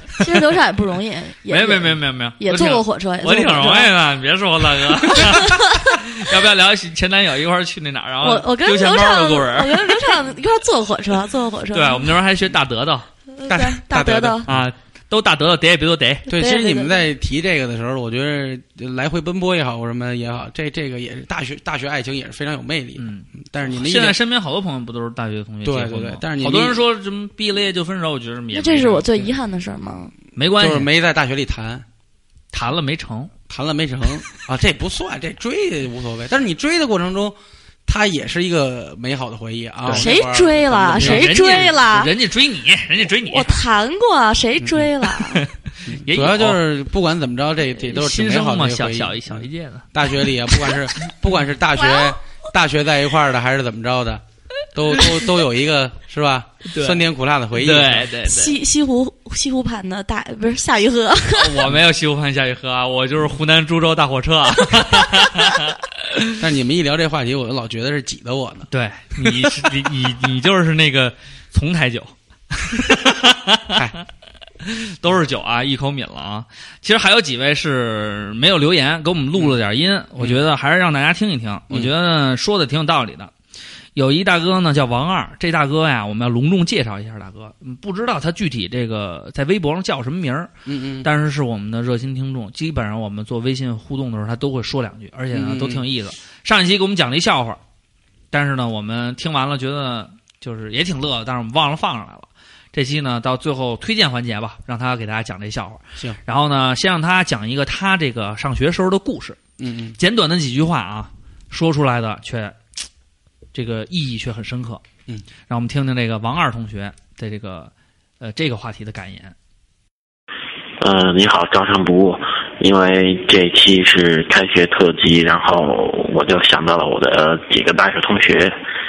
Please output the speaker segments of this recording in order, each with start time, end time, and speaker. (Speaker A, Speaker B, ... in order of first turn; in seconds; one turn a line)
Speaker A: 0.2-3.9
Speaker B: 1.5-10.1
Speaker A: 5.2-5.8
Speaker A: 8.2-12.2
Speaker B: 11.7-13.1
Speaker A: 13.3-14.5
Speaker C: 13.5-14.6
Speaker B: 14.5-16.3
Speaker A: 16.3-17.1
Speaker C: 16.3-24.2
Speaker B: 23.0-29.3
Speaker C: 25.6-26.8
Speaker A: 28.5-30.1
Speaker B: 30.4-30.9
Speaker C: 30.6-31.9
Speaker B: 32.5-33.3
Speaker C: 33.5-41.6
Speaker A: 39.9-42.1
Speaker B: 41.0-43.6
Speaker A: 43.2-45.4
Speaker C: 44.6-44.9
Speaker B: 45.4-46.6
Speaker C: 45.9-54.2
Speaker B: 47.8-50.8
Speaker A: 51.7-52.2
Speaker C: 54.7-58.1
Speaker B: 56.6-58.6
Speaker A: 58.2-61.7
Speaker B: 61.4-66.4
Speaker C: 66.4-68.7
Speaker B: 68.7-73.8
Speaker C: 69.2-69.7
Speaker B: 74.6-83.3
Speaker B: 84.0-97.6
Speaker C: 90.7-91.1
Speaker C: 95.3-95.9
Speaker B: 98.3-109.4
Speaker C: 109.6-110.0
Speaker B: 110.0-112.6
Speaker B: 113.5-114.8
Speaker B: 115.5-119.3
Speaker D: 120.8-128.5